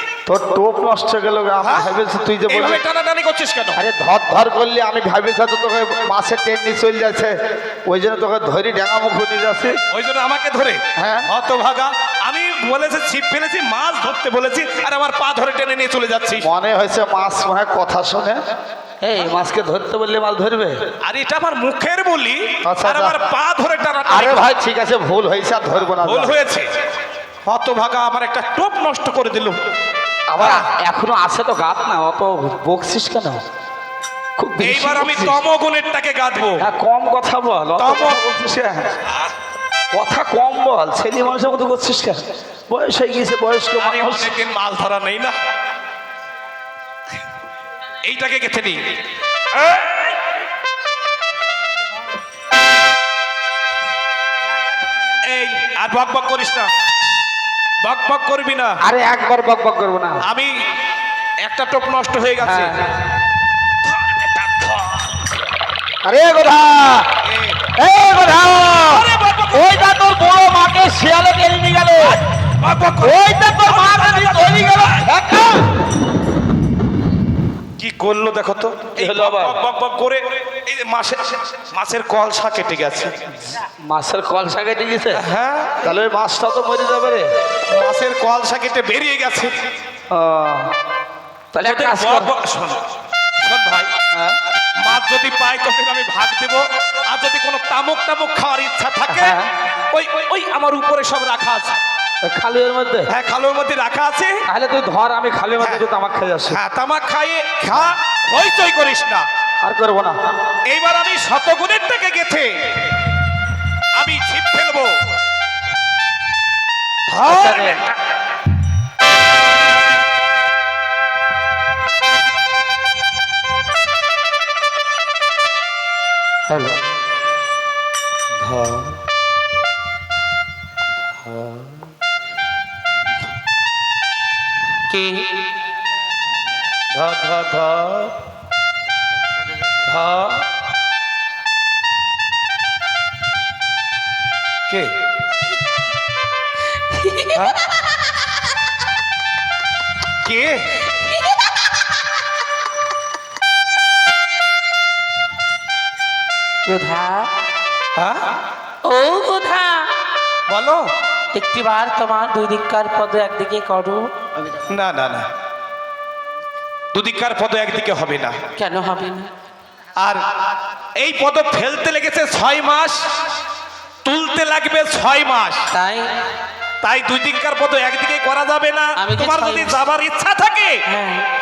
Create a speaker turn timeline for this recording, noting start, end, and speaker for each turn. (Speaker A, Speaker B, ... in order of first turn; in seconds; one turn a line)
Speaker A: 0.2-2.8
Speaker B: 1.6-1.9
Speaker B: 2.5-3.8
Speaker A: 3.8-9.8
Speaker B: 9.9-16.5
Speaker A: 11.0-11.3
Speaker A: 16.4-18.4
Speaker A: 19.0-20.8
Speaker B: 21.0-24.5
Speaker A: 22.6-23.1
Speaker A: 24.1-26.4
Speaker B: 26.0-26.7
Speaker B: 27.4-29.6
Speaker A: 30.3-33.4
Speaker B: 30.4-30.7
Speaker A: 34.4-35.4
Speaker B: 34.6-36.7
Speaker A: 36.6-39.0
Speaker B: 37.8-38.2
Speaker A: 39.9-44.3
Speaker B: 43.8-45.4
Speaker B: 48.0-48.8
Speaker B: 49.5-50.2
Speaker B: 55.3-56.7
Speaker B: 57.8-58.8
Speaker A: 58.8-60.2
Speaker B: 60.2-60.5
Speaker B: 61.5-62.8
Speaker A: 62.4-62.8
Speaker B: 63.8-65.2
Speaker A: 66.0-67.1
Speaker B: 67.2-67.6
Speaker A: 67.8-72.2
Speaker B: 68.8-69.8
Speaker B: 72.0-75.1
Speaker A: 73.0-75.7
Speaker B: 77.8-83.4
Speaker A: 79.0-79.6
Speaker A: 83.8-85.2
Speaker B: 85.1-85.9
Speaker A: 85.8-87.3
Speaker B: 87.7-89.6
Speaker A: 90.1-90.7
Speaker A: 91.5-92.3
Speaker B: 91.6-92.8
Speaker B: 93.4-93.9
Speaker B: 94.8-101.8
Speaker A: 99.1-99.5
Speaker A: 102.2-103.1
Speaker B: 103.1-104.4
Speaker A: 104.5-106.6
Speaker B: 105.6-105.8
Speaker B: 106.5-109.2
Speaker A: 109.6-110.2
Speaker B: 110.7-112.9
Speaker B: 113.9-115.0
Speaker B: 117.1-117.8
Speaker C: 117.2-117.8
Speaker C: 126.5-126.8
Speaker A: 128.4-128.9
Speaker A: 131.4-131.7
Speaker C: 134.9-135.3
Speaker B: 136.9-138.1
Speaker B: 139.9-140.4
Speaker C: 146.9-147.4
Speaker B: 147.3-147.6
Speaker B: 150.2-150.9
Speaker C: 156.7-157.3
Speaker B: 157.9-158.2
Speaker C: 158.8-159.9
Speaker B: 160.5-160.8
Speaker C: 161.3-164.1
Speaker B: 164.7-165.3
Speaker B: 166.9-168.4
Speaker C: 168.6-169.3
Speaker B: 171.0-173.0
Speaker B: 174.0-175.7
Speaker C: 175.7-176.1
Speaker B: 176.8-180.8
Speaker C: 179.0-179.8
Speaker C: 180.9-181.2